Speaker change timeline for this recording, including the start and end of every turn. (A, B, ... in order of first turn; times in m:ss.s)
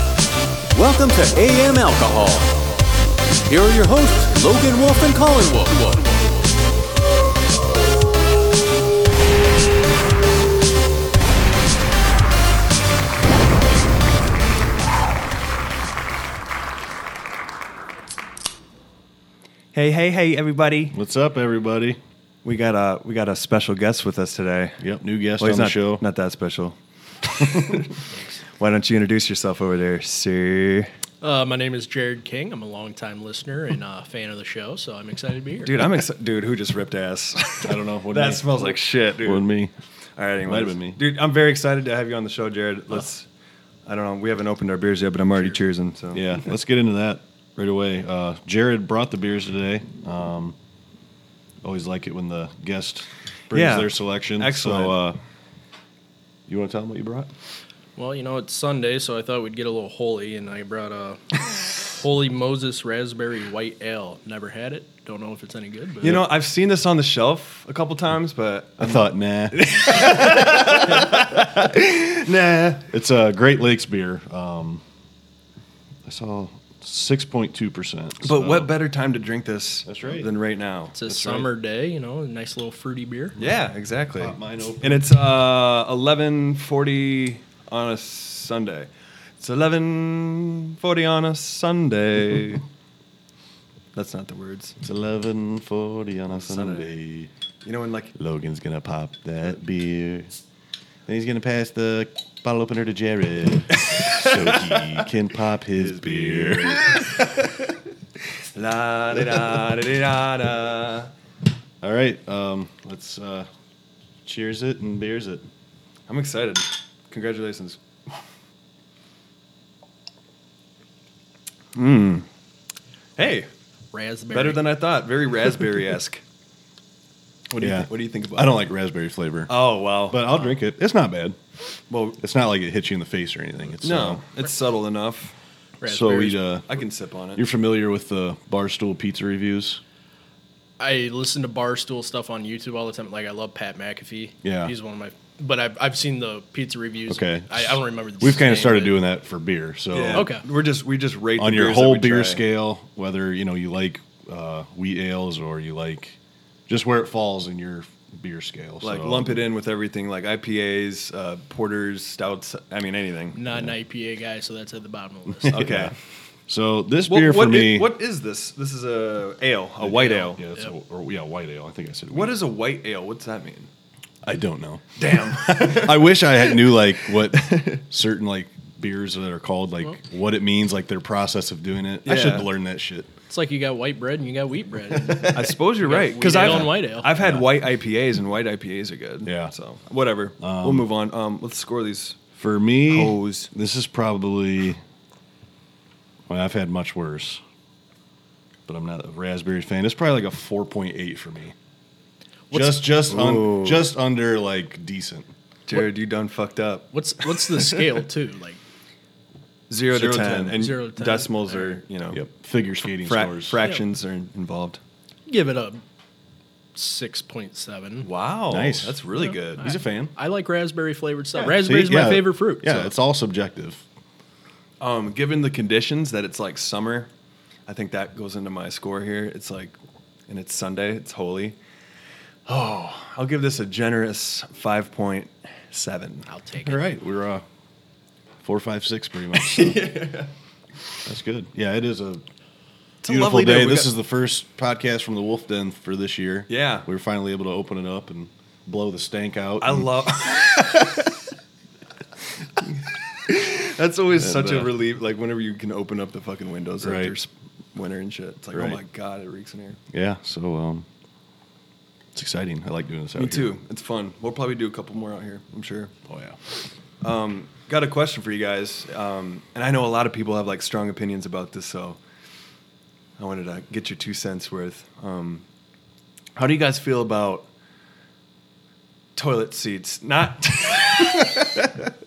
0:00.7-0:02.6 A
0:03.5-0:06.0 A
0:19.7-0:20.9 B
0:20.9-0:22.0 C
0:22.4-0:24.8 B
0:24.8-0:26.0 C
0:25.4-0:28.0 B
0:27.4-0:27.8 C
0:28.6-0:30.9 B
0:31.2-0:35.8 D
0:35.6-0:39.5 B
0:37.6-0:39.7 C
0:40.2-0:43.2 B
0:40.4-0:41.0 C
0:43.8-0:46.4 B
0:46.1-0:50.5 C
0:51.6-0:55.2 C
0:53.5-0:55.0 B
0:56.5-0:57.3 C
0:58.0-1:06.2 D
1:06.0-1:12.8 B
1:08.8-1:12.1 C
1:12.9-1:14.8 C
1:16.0-1:18.7 C
1:18.2-1:21.2 B
1:19.8-1:20.3 C
1:20.9-1:23.4 D
1:21.0-1:21.4 C
1:23.4-1:32.6 B
1:24.2-1:25.1 C
1:33.9-1:34.7 B
1:34.8-1:37.3 C
1:36.3-1:36.9 B
1:37.6-1:38.1 B
1:38.1-1:40.4 C
1:41.0-1:47.0 C
1:43.9-1:45.0 B
1:45.7-1:47.8 B
1:48.5-1:51.1 B
1:51.8-1:53.5 C
1:54.2-1:55.4 C
1:56.1-1:58.1 B
2:01.7-2:02.2 B
2:03.2-2:03.5 B
2:03.9-2:04.6 D
2:04.3-2:06.2 B
2:07.5-2:08.6 B
2:07.6-2:09.5 C
2:09.5-2:10.4 B
2:10.0-2:11.4 C
2:11.9-2:12.2 B
2:12.2-2:14.2 C
2:13.8-2:15.3 B
2:15.8-2:16.4 D
2:15.8-2:16.7 C
2:16.6-2:17.4 B
2:17.3-2:19.8 C
2:20.8-2:29.0 D
2:24.4-2:24.7 C
2:27.1-2:30.3 C
2:29.9-2:32.4 B
2:30.1-2:30.4 D
2:31.4-2:36.2 C
2:36.7-2:39.4 C
2:38.8-2:43.4 B
2:43.3-2:45.6 D
2:45.4-2:45.9 C
2:45.5-2:45.9 B
2:46.5-2:47.9 C
2:47.1-2:50.4 B
2:49.8-2:52.4 C
2:50.0-2:50.7 D
2:52.1-2:53.7 B
2:54.2-2:54.9 C
2:55.0-2:57.8 B
2:55.4-3:03.1 C
3:02.0-3:02.5 B
3:03.3-3:07.1 D
3:05.1-3:05.4 C
3:05.2-3:12.2 B
3:06.2-3:07.4 C
3:09.2-3:09.5 C
3:10.4-3:10.9 C
3:12.4-3:14.8 C
3:12.8-3:13.5 B
3:16.3-3:17.4 C
3:18.7-3:21.5 C
3:22.5-3:22.8 D
3:22.5-3:25.3 C
3:23.1-3:23.9 B
3:25.7-3:26.9 B
3:26.9-3:28.6 D
3:27.5-3:27.8 B
3:29.7-3:32.2 B
3:29.9-3:30.6 C
3:30.5-3:31.8 D
3:32.1-3:33.6 C
3:33.0-3:34.8 B
3:35.3-3:35.8 D
3:36.7-3:38.1 D
3:38.0-3:39.7 B
3:38.5-3:39.0 C
3:39.2-3:42.9 D
3:39.6-3:40.1 C
3:41.4-3:43.8 C
3:44.8-3:47.1 B
3:47.7-3:49.8 B
3:50.3-3:51.6 B
3:52.5-3:56.3 B
3:56.3-3:56.8 D
3:56.6-3:57.4 C
3:58.4-4:00.0 C
3:59.3-4:00.3 B
4:01.0-4:02.2 C
4:03.0-4:03.9 B
4:03.0-4:10.6 C
4:06.5-4:06.9 B
4:09.6-4:11.1 B
4:13.2-4:19.8 B
4:14.2-4:14.7 C
4:16.8-4:17.1 C
4:18.5-4:18.8 C
4:19.9-4:20.8 C
4:22.1-4:23.5 C
4:23.2-4:25.9 B
4:26.1-4:26.4 C
4:27.0-4:32.0 B
4:33.2-4:35.4 B
4:36.4-4:37.5 B
4:39.2-4:41.8 B